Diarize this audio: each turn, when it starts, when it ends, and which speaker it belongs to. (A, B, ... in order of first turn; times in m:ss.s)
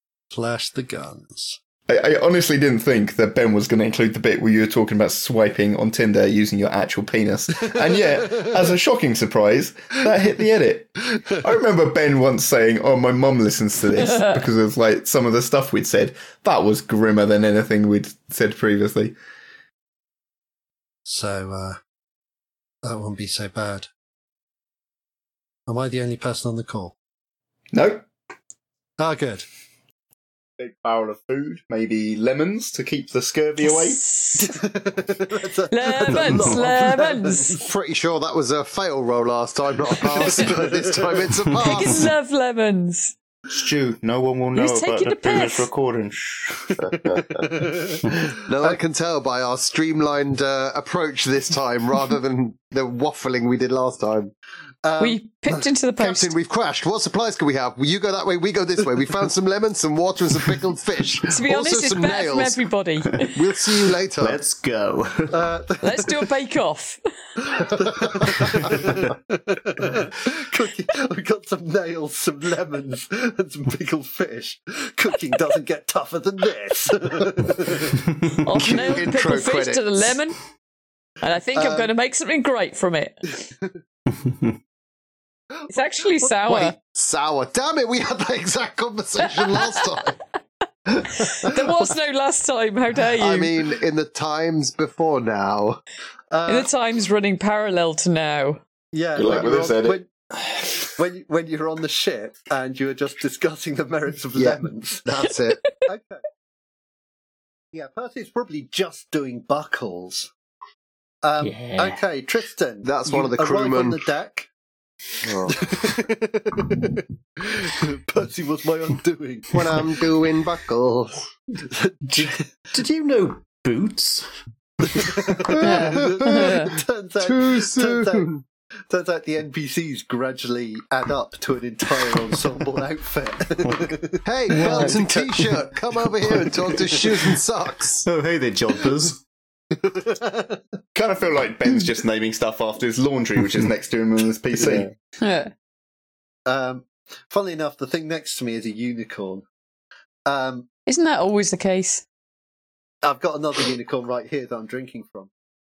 0:00.3-0:01.6 A
0:01.9-0:19.1 B
0:14.0-0:14.4 C
0:21.0-0:21.8 A
0:22.8-0:23.9 A
0:25.7-0:26.9 A
0:27.7-0:28.0 B
0:29.0-0:29.4 A
0:30.6-0:34.0 B
0:33.6-0:34.5 C
0:34.4-0:37.7 A
0:35.7-0:37.6 C
0:37.6-0:42.1 D
0:40.2-0:40.8 A
0:41.6-0:43.1 C
0:43.5-0:47.0 B
0:44.5-0:45.7 C
0:47.1-0:48.0 A
0:48.1-0:54.3 D
0:54.8-0:55.6 A
0:55.0-0:56.3 C
0:56.0-1:02.6 D
1:01.3-1:03.5 C
1:03.2-1:04.4 D
1:04.2-1:05.4 E
1:05.3-1:06.3 A
1:05.8-1:07.0 C
1:07.4-1:18.1 A
1:18.4-1:20.4 C
1:18.6-1:20.2 D
1:21.2-1:23.3 C
1:21.5-1:21.9 A
1:25.7-1:26.7 C
1:26.2-1:26.7 A
1:26.8-1:30.2 D
1:30.9-1:31.7 D
1:31.2-1:33.6 C
1:33.2-1:35.8 D
1:36.3-1:36.7 A
1:36.5-1:38.6 C
1:38.9-1:40.1 A
1:39.2-1:40.7 B
1:41.0-1:45.0 A
1:44.4-1:45.6 D
1:45.9-1:46.2 A
1:47.7-1:50.3 A
1:51.2-1:54.5 A
1:51.6-1:51.9 E
1:52.8-1:54.0 D
1:55.2-1:55.7 D
1:55.5-1:59.9 A
1:59.5-2:01.2 D
2:01.6-2:02.5 A
2:02.7-2:04.3 E
2:04.9-2:08.3 A
2:05.4-2:08.4 D
2:05.6-2:06.7 C
2:08.9-2:15.2 A
2:14.2-2:18.0 D
2:14.5-2:15.0 C
2:16.3-2:17.2 E
2:18.0-2:19.2 E
2:20.0-2:20.6 A
2:20.9-2:24.9 B
2:25.2-2:25.5 C
2:26.4-2:29.4 A
2:30.3-2:30.7 A
2:30.9-2:32.0 C
2:33.0-2:35.3 A